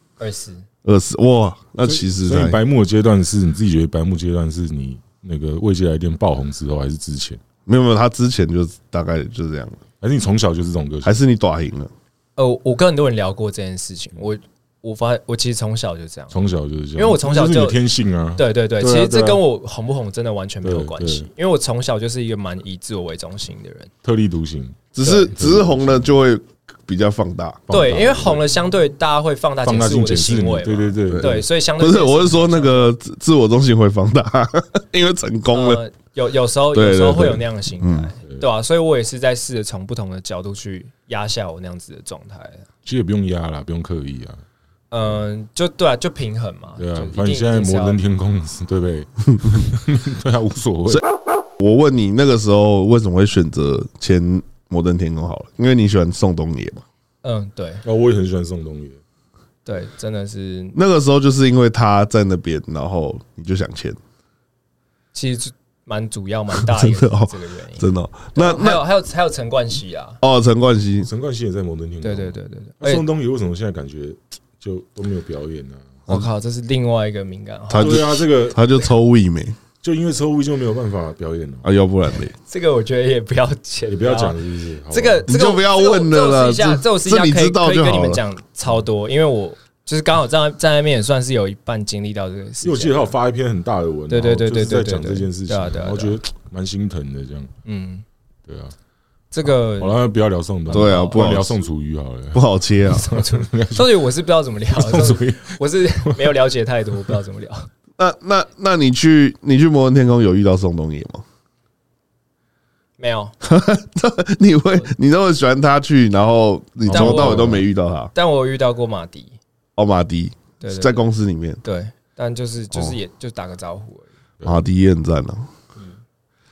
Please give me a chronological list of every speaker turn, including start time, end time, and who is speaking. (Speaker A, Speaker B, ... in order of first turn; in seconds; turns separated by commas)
Speaker A: 0.2-0.7, Speaker B: 0.8-2.6, Speaker C: 1.8-7.4, Speaker B: 7.7-9.8, Speaker C: 10.0-11.2, Speaker B: 11.0-11.9, Speaker A: 12.4-16.4, Speaker C: 16.3-19.4, Speaker A: 16.9-17.8, Speaker A: 18.4-23.9, Speaker C: 20.6-21.3, Speaker C: 24.0-26.1, Speaker B: 24.9-27.7, Speaker A: 25.0-25.3, Speaker C: 27.7-28.4, Speaker A: 27.7-32.9, Speaker C: 29.6-31.4, Speaker B: 31.1-35.8, Speaker A: 35.5-42.7, Speaker B: 36.7-38.1, Speaker C: 42.8-44.4, Speaker A: 44.9-48.0, Speaker C: 46.8-51.0, Speaker B: 51.6-56.8, Speaker A: 57.2-57.8, Speaker C: 57.8-59.0, Speaker A: 59.6-60.8, Speaker B: 60.7-64.0, Speaker A: 65.1-70.2, Speaker B: 66.6-68.8, Speaker B: 70.2-71.1, Speaker C: 71.0-76.0, Speaker A: 72.0-73.0, Speaker A: 76.1-78.0, Speaker B: 77.7-79.6, Speaker C: 77.8-78.6, Speaker C: 79.8-81.7, Speaker B: 81.6-82.3, Speaker A: 82.4-84.4, Speaker C: 83.9-85.3, Speaker A: 84.9-93.1, Speaker B: 85.3-88.2, Speaker C: 92.6-97.5, Speaker A: 94.1-96.2, Speaker A: 97.6-98.0, Speaker C: 98.5-98.7, Speaker A: 99.3-100.0, Speaker C: 99.8-103.9, Speaker B: 100.7-101.6, Speaker A: 100.7-101.4, Speaker B: 102.3-103.1, Speaker A: 102.9-107.7, Speaker C: 104.7-106.3, Speaker B: 108.0-111.2, Speaker A: 113.0-113.3, Speaker B: 113.4-118.1, Speaker C: 116.9-117.6, Speaker A: 116.9-117.6, Speaker A: 118.1-119.4, Speaker B: 119.8-121.6, Speaker A: 120.6-121.0, Speaker A: 121.6-124.1, Speaker B: 124.4-125.5